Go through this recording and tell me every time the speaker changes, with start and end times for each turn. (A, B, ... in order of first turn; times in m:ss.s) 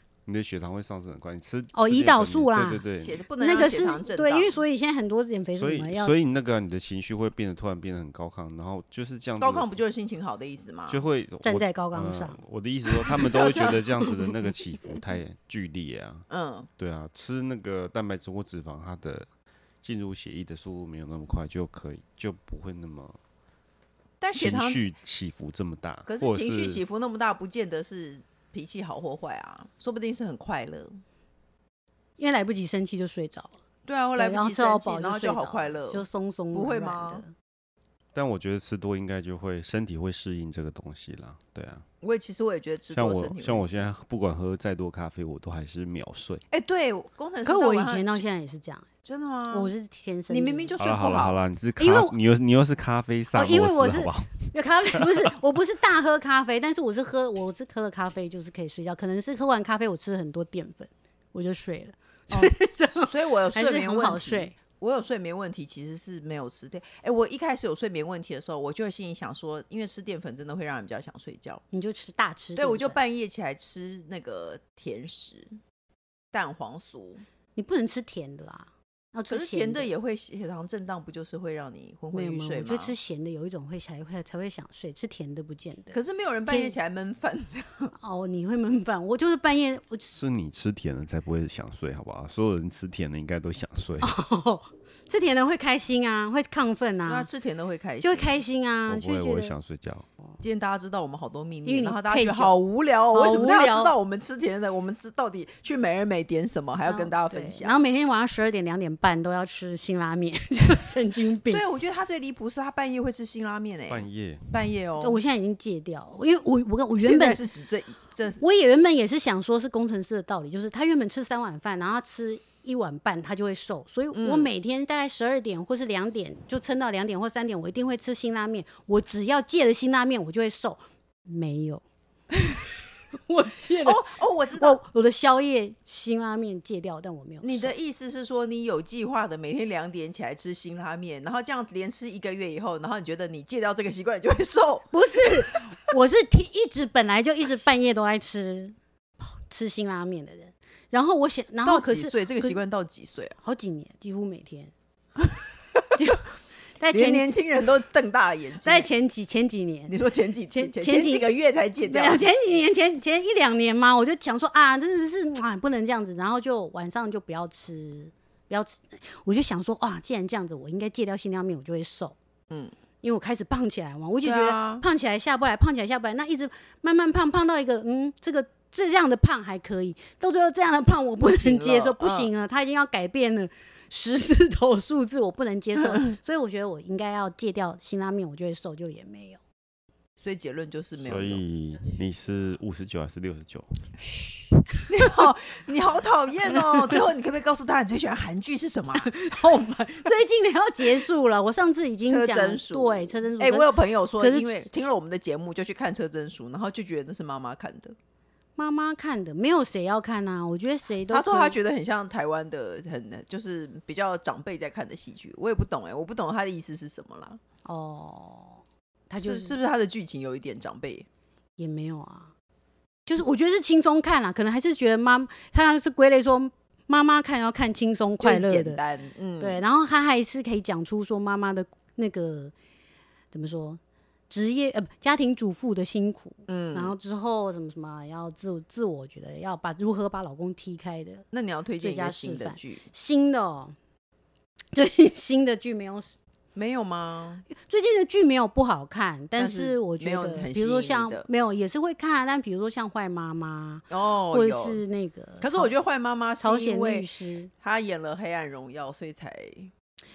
0:00.3-0:03.2 A
0:01.7-0:02.9 B
0:03.0-0:04.6 C
0:03.4-0:06.1 B
0:05.6-0:09.8 A
0:09.4-0:11.0 C
0:10.9-0:16.3 A
0:11.4-0:12.4 B
0:13.3-0:13.8 C
0:16.3-0:16.7 C
0:16.8-0:19.3 A
0:19.8-0:23.2 A
0:24.2-0:24.8 C
0:24.3-0:26.8 A
0:26.1-0:31.0 C
0:32.2-0:33.5 B
0:33.9-0:37.2 C
0:34.2-0:37.3 B
0:38.1-0:41.8 A
0:42.0-0:43.9 C
0:42.9-0:46.4 A
0:46.5-0:48.2 C
0:47.4-0:48.9 B
0:49.0-0:49.7 C
0:49.5-0:50.7 B
0:50.3-0:51.4 C
0:50.8-0:55.3 A
0:51.8-0:52.2 B
0:53.3-1:04.6 B
1:02.3-1:11.6 C
1:11.7-1:13.0 B
1:12.6-1:15.6 C
1:16.3-1:17.2 C
1:17.6-1:19.9 B
1:19.3-1:23.0 C
1:22.1-1:26.8 B
1:25.9-1:27.9 C
1:28.0-1:30.2 B
1:30.1-1:34.1 A
1:34.0-1:37.3 B
1:37.1-1:38.4 C
1:38.0-1:39.6 B
1:38.9-1:40.1 A
1:40.4-1:47.8 C
1:41.6-1:42.6 B
1:43.1-1:43.9 B
1:46.8-1:51.6 B
1:51.5-1:55.2 C
1:53.9-1:54.5 A
1:55.0-1:57.4 B
1:57.0-1:58.4 C
1:58.4-2:11.8 B
2:04.1-2:04.5 C
2:13.1-2:17.7 B
2:13.8-2:14.8 C
2:17.4-2:25.3 C
2:24.9-2:32.6 B
2:31.6-2:33.4 C
2:33.4-2:34.7 B
2:36.0-2:36.3 B
2:36.8-2:37.3 B
2:36.9-2:38.9 C
2:38.6-2:40.0 B
2:39.9-2:42.3 C
2:40.5-2:41.3 B
2:41.8-2:52.2 B
2:53.0-3:09.4 B
2:54.2-2:54.8 C
3:01.2-3:02.3 C
3:10.2-3:11.4 C
3:11.0-3:13.8 A
3:14.1-3:14.9 B
3:14.9-3:19.1 C
3:19.0-3:24.6 B
3:22.1-3:28.0 C
3:28.6-3:31.6 B
3:31.1-3:37.4 C
3:37.6-3:39.6 B
3:39.2-3:41.1 C
3:41.6-3:42.3 B
3:43.1-3:48.8 B
3:48.2-3:49.6 C
3:49.4-3:52.5 B
3:53.3-4:01.3 B
3:56.5-3:57.0 C
4:01.3-4:02.8 C
4:01.8-4:03.8 B
4:04.7-4:06.2 B
4:06.6-4:07.4 C
4:07.5-4:15.7 B
4:09.4-4:11.3 C
4:13.9-4:14.8 C
4:15.4-4:17.1 C
4:16.4-4:17.5 B
4:17.6-4:19.7 C